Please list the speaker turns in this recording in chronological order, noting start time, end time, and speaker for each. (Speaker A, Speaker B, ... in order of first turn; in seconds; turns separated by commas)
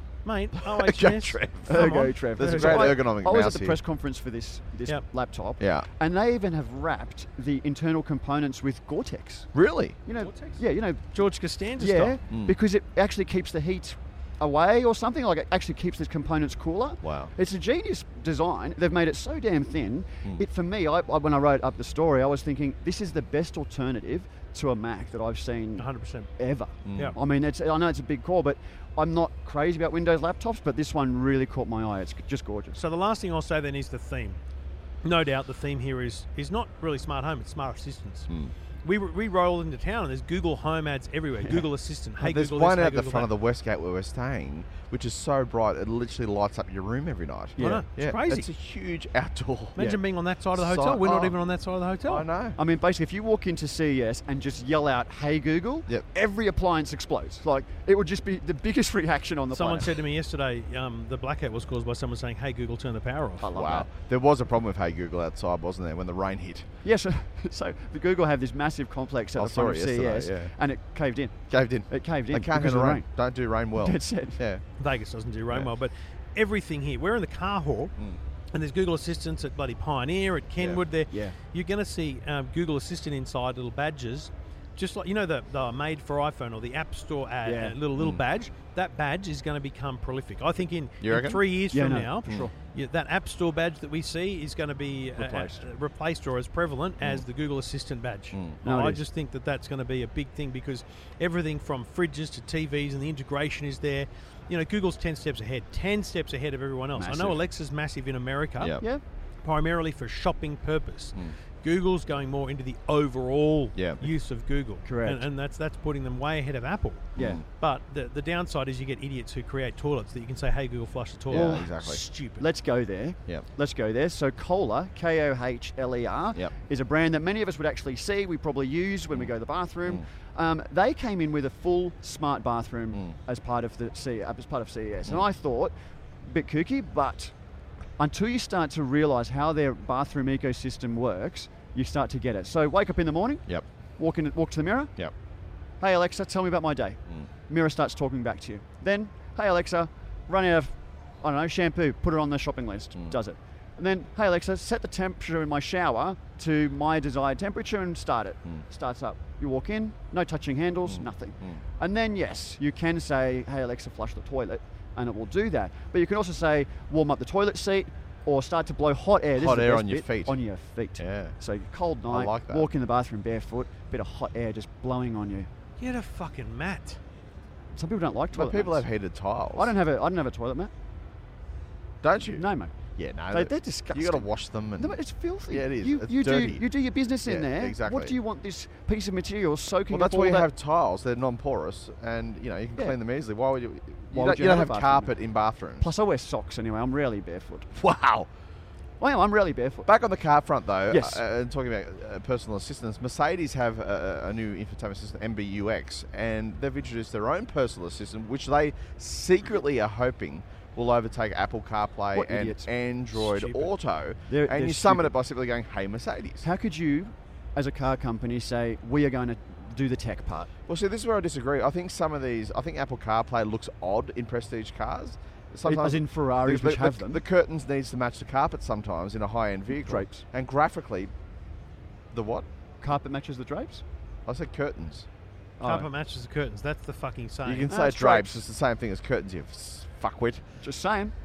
Speaker A: 0.2-3.0, Speaker B: 0.6-3.8, Speaker C: 1.7-9.5, Speaker B: 5.6-5.9, Speaker B: 9.5-10.0, Speaker C: 10.1-11.2, Speaker A: 10.2-12.2, Speaker C: 11.8-32.8, Speaker B: 12.3-12.6, Speaker B: 17.0-17.3, Speaker A: 25.8-26.3, Speaker B: 26.9-27.2, Speaker A: 32.8-34.4, Speaker A: 35.0-38.3, Speaker B: 38.3-38.5, Speaker A: 38.8-43.3, Speaker B: 42.2-49.9, Speaker C: 47.6-47.9, Speaker A: 47.6-48.5, Speaker A: 49.8-52.2, Speaker B: 50.5-51.3, Speaker B: 52.0-52.6, Speaker C: 52.6-60.0, Speaker A: 59.5-63.5, Speaker C: 63.4-63.9, Speaker B: 63.5-66.7, Speaker C: 66.8-73.1, Speaker B: 69.4-70.5, Speaker B: 71.5-74.6, Speaker C: 73.8-74.4, Speaker A: 74.8-77.9, Speaker A: 78.5-108.8, Speaker C: 81.1-81.4, Speaker C: 87.5-87.8, Speaker B: 88.0-88.2, Speaker B: 91.0-91.4, Speaker C: 91.7-92.5, Speaker C: 95.2-95.6, Speaker B: 98.3-98.6, Speaker C: 98.6-99.0, Speaker C: 107.0-107.4, Speaker A: 109.4-122.5, Speaker B: 113.8-114.1, Speaker C: 114.8-115.3, Speaker C: 117.2-117.4, Speaker B: 117.2-117.4, Speaker B: 121.3-122.0, Speaker C: 121.3-121.7, Speaker C: 122.4-137.3, Speaker C: 138.0-143.4, Speaker C: 144.0-144.9, Speaker C: 145.8-175.5, Speaker B: 160.9-161.6, Speaker B: 169.4-170.4, Speaker B: 171.0-171.4, Speaker B: 172.1-172.7, Speaker A: 175.8-177.0, Speaker C: 177.7-178.9, Speaker B: 178.3-179.7, Speaker C: 179.6-180.7, Speaker B: 182.0-182.4, Speaker C: 182.2-182.8, Speaker B: 183.0-186.7, Speaker C: 183.3-190.5, Speaker B: 187.2-188.2, Speaker B: 189.9-195.9, Speaker C: 194.1-195.2, Speaker C: 195.8-197.7, Speaker B: 197.8-198.3, Speaker C: 199.0-199.9, Speaker B: 199.9-216.5, Speaker C: 200.9-201.2, Speaker C: 212.1-213.7, Speaker C: 214.3-215.1, Speaker C: 216.4-220.5, Speaker B: 220.7-231.1, Speaker C: 225.7-227.2, Speaker C: 229.7-230.2, Speaker B: 232.1-232.4, Speaker C: 232.8-233.8, Speaker B: 234.3-235.1, Speaker C: 235.6-235.9, Speaker A: 235.6-237.7, Speaker B: 237.5-240.4, Speaker C: 237.7-238.4, Speaker C: 240.6-241.2